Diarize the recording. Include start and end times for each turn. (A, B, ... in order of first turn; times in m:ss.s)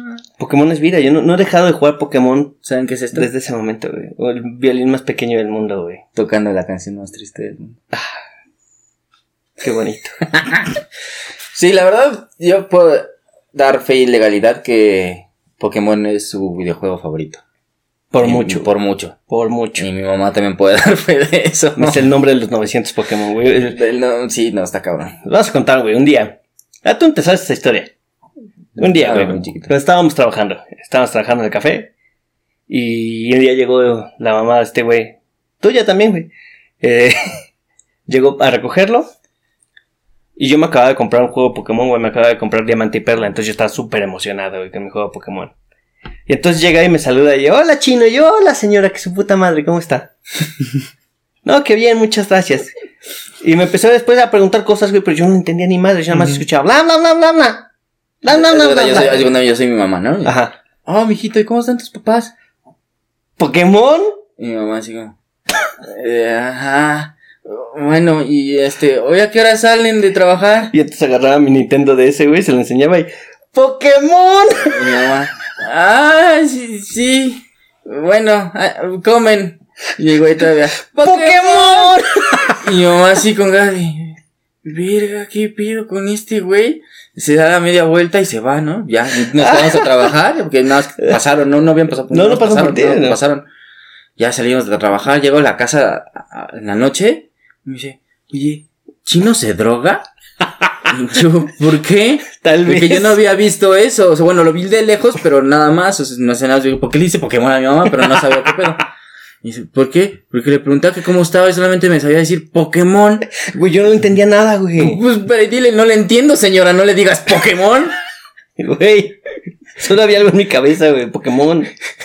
0:00.4-0:02.6 A
0:02.6-0:03.3 B
0:03.1-0:06.0 A
0:06.2-0:07.8 B
0:09.6-0:10.2 A
0:10.3-0:10.7 B
0:11.5-0:17.4 B
0:18.1-0:18.7 A
0:18.2-0:19.2 B
0:19.3-0:19.9 A
0:19.8-0:22.1 B
0:21.8-0:23.8 A
0:23.7-0:25.2 B
0:25.2-0:27.9 A
0:28.8-0:29.7 B
0:28.8-0:31.9 A
0:32.7-0:37.2 A
0:38.1-0:39.1 A
0:40.4-0:45.5 A
0:46.3-0:50.1 A
0:51.4-0:52.7 A
0:53.4-0:57.7 A
0:58.2-0:59.3 A
0:58.3-1:00.3 B
1:00.2-1:00.6 A
1:00.9-1:02.3 B
1:03.4-1:04.2 A
1:04.4-1:05.2 B
1:05.8-1:10.7 B
1:10.7-1:15.0 A
1:14.7-1:33.5 B
1:21.0-1:22.6 A
1:29.4-1:30.1 A
1:32.1-1:33.2 A
1:34.2-1:40.0 B
1:40.6-1:40.9 A
1:40.9-1:48.8 B
1:42.4-1:43.2 A
1:49.4-1:53.3 B
1:53.4-1:55.0 A
1:54.8-1:57.9 B
1:58.6-1:59.2 A
1:59.8-2:01.7 A